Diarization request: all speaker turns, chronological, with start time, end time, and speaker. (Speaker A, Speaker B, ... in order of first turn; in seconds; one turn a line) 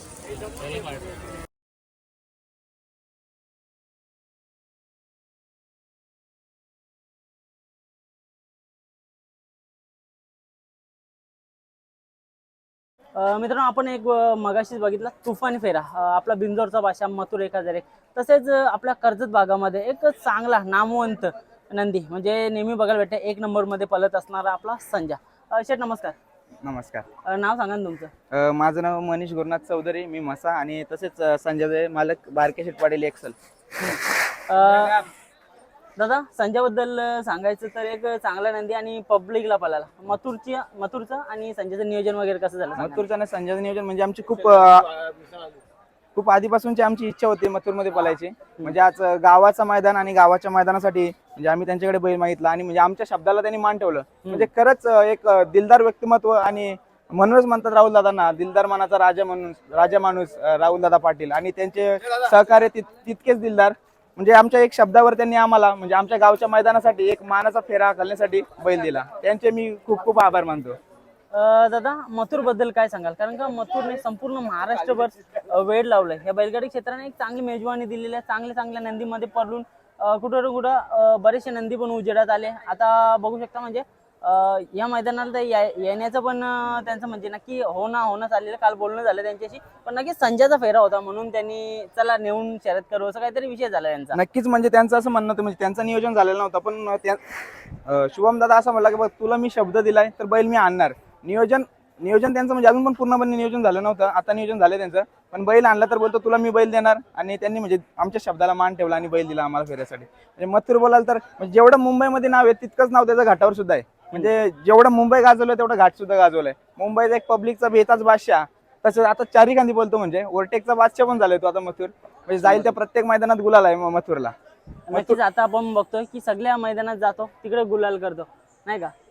Speaker A: 13.2-26.1
Speaker B: 26.6-27.1
Speaker A: 27.2-28.1
Speaker B: 28.3-33.4
Speaker A: 33.8-35.1
Speaker A: 36.0-43.0
Speaker B: 42.8-45.0
Speaker B: 46.1-70.8
Speaker A: 71.3-94.2
Speaker B: 94.1-97.2
Speaker B: 97.8-124.3
Speaker A: 122.4-122.8
Speaker A: 124.9-128.9
Speaker B: 124.9-125.2